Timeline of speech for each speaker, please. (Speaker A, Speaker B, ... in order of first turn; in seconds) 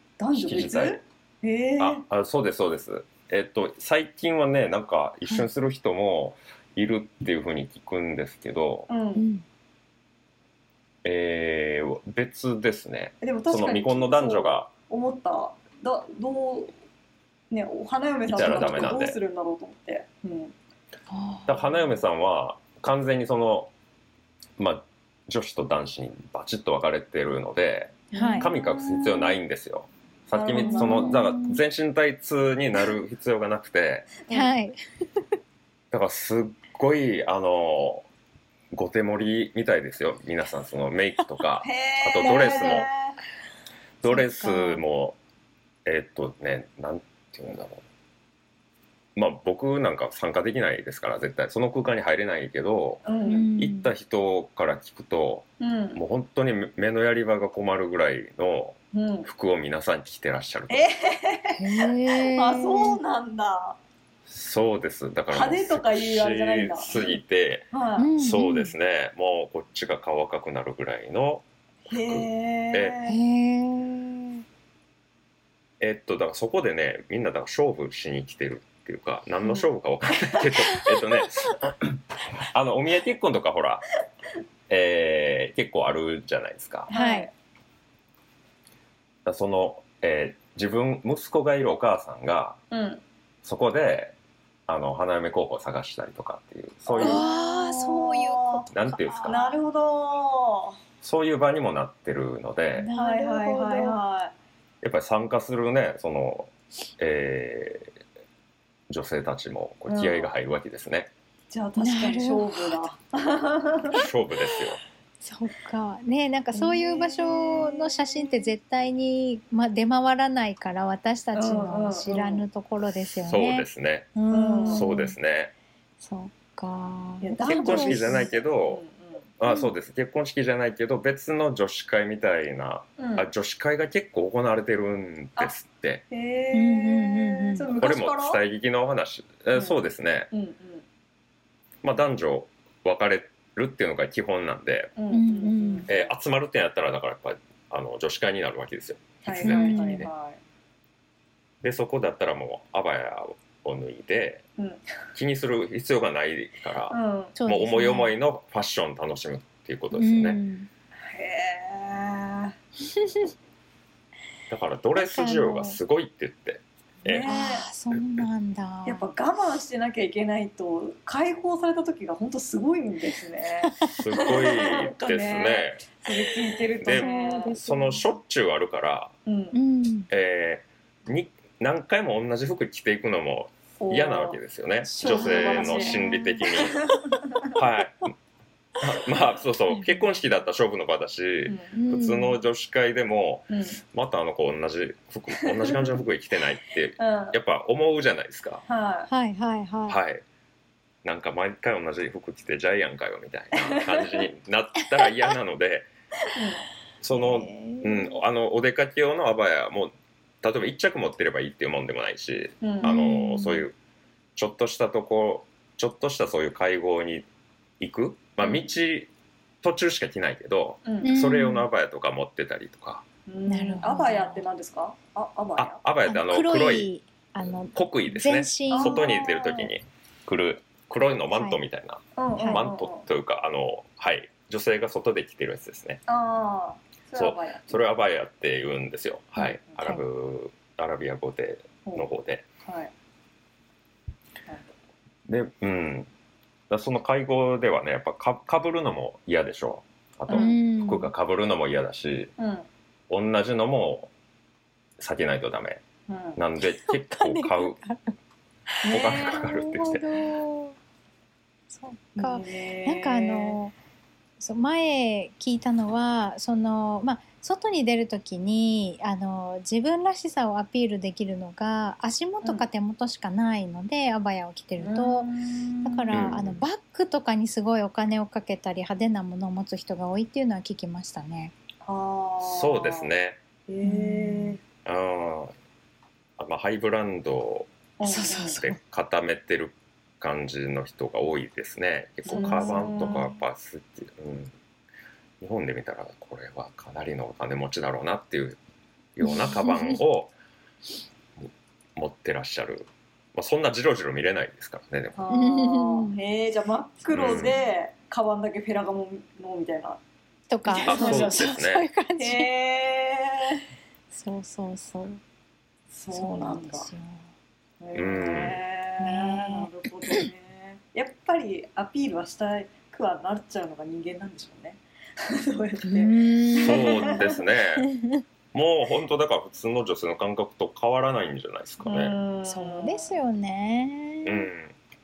Speaker A: 0.2-2.0, 8.9-9.2, 13.2-16.7, 17.5-20.5, 28.1-29.4, 30.3-31.2, 34.3-34.5, 41.6-43.2, 53.0-53.5, 55.6-56.0, 58.9-59.3, 60.7-63.8, 65.3-67.2, 67.7-68.1, 71.9-73.2, 86.9-87.3, 92.7-93.0, 96.9-98.7, 99.2-100.8, 102.9-104.3, 109.9-110.3, 111.5-114.0, 116.5-118.5, 121.3-122.5, 124.3-124.9, 127.2-129.3, 133.0-133.3, 136.1-138.4, 139.6-139.8, 140.3-140.8, 145.0-146.1, 149.2-150.4, 154.6-154.9, 156.9-157.3, 161.0-162.6, 167.1-167.7, 168.9-177.6, 179.3-179.6, 183.8-184.4, 185.0-187.5, 191.5-191.8, 193.5-193.8, 195.4-195.9, 197.0-197.4, 198.7-199.1, 203.5-204.3, 206.3-206.7, 212.6-212.9, 220.9-221.2, 223.3-225.8, 228.7-229.7, 232.2-233.1, 236.1-237.9, 242.6-242.9, 250.3-250.6, 252.4-252.7, 256.1-256.4, 258.9-259.6, 262.2-263.6, 274.8-276.2, 281.8-283.1, 283.7-284.6, 288.0-288.6, 292.3-293.3, 305.2-310.0, 310.7-311.5, 312.2-313.6, 315.9-316.9, 317.8-327.4, 331.8-333.2
Speaker B: 0.4-1.0, 1.8-8.9, 11.0-14.7, 18.3-19.2, 21.5-23.7, 24.6-34.1, 35.9-38.1, 38.7-42.9, 44.0-45.2, 45.9-47.9, 49.2-60.9, 64.3-73.0, 75.8-83.8, 84.7-86.9, 89.2-92.6, 93.4-94.2, 94.7-97.2, 98.7-99.4, 101.0-102.9, 104.8-107.9, 108.9-111.1, 113.9-114.8, 123.2-124.1, 124.7-125.5, 127.5-128.8, 129.4-136.1, 137.8-140.3, 141.8-144.9, 145.9-150.1, 151.6-154.4, 155.2-160.4, 164.5-167.4, 167.9-168.2, 173.9-176.0, 176.8-179.1, 180.1-186.8, 187.5-188.1, 188.8-198.6, 199.9-200.2, 201.0-205.9, 207.0-213.8, 214.4-217.3, 217.8-219.1, 219.6-223.1, 225.6-226.9, 227.7-236.0, 237.2-242.5, 245.3-246.1, 246.7-252.3, 253.1-254.1, 255.0-255.8, 256.4-257.8, 258.9-260.1, 276.1-276.6, 282.4-283.4, 284.9-285.5, 286.4-287.7, 288.4-294.5, 295.4-298.6, 299.2-300.3, 301.4-305.2, 307.1-307.6, 310.8-311.9, 317.9-318.6, 326.6-327.9, 328.5-332.2, 334.2-334.8
Speaker C: 9.2-9.4, 21.1-22.0, 28.1-28.5, 30.6-31.6, 34.3-34.8, 42.2-42.9, 44.0-44.8, 53.3-53.9, 61.6-63.0, 68.0-68.7, 73.1-74.4, 86.9-87.3, 97.0-99.6, 102.8-104.0, 111.8-112.8, 115.2-125.2, 126.0-128.3, 129.5-129.7, 136.5-137.7, 145.1-145.9, 149.4-150.1, 157.4-158.2, 159.9-160.7, 162.9-163.3, 165.0-165.8, 167.2-169.1, 173.6-174.0, 176.9-178.1, 179.5-180.1, 184.8-186.6, 189.7-190.1, 191.7-192.4, 199.1-200.0, 207.1-208.2, 212.8-213.7, 221.0-221.7, 223.5-224.4, 226.1-229.3, 231.3-231.6, 232.4-232.7, 250.3-251.1, 256.7-258.2, 258.7-260.8, 261.7-263.7, 264.4-275.3, 275.8-281.5, 283.8-284.6, 288.0-288.8, 292.3-293.3, 299.2-300.0, 305.3-306.2, 307.3-307.6, 310.5-312.5, 314.1-315.2, 316.1-317.3, 319.0-320.3, 325.9-328.2, 332.4-334.5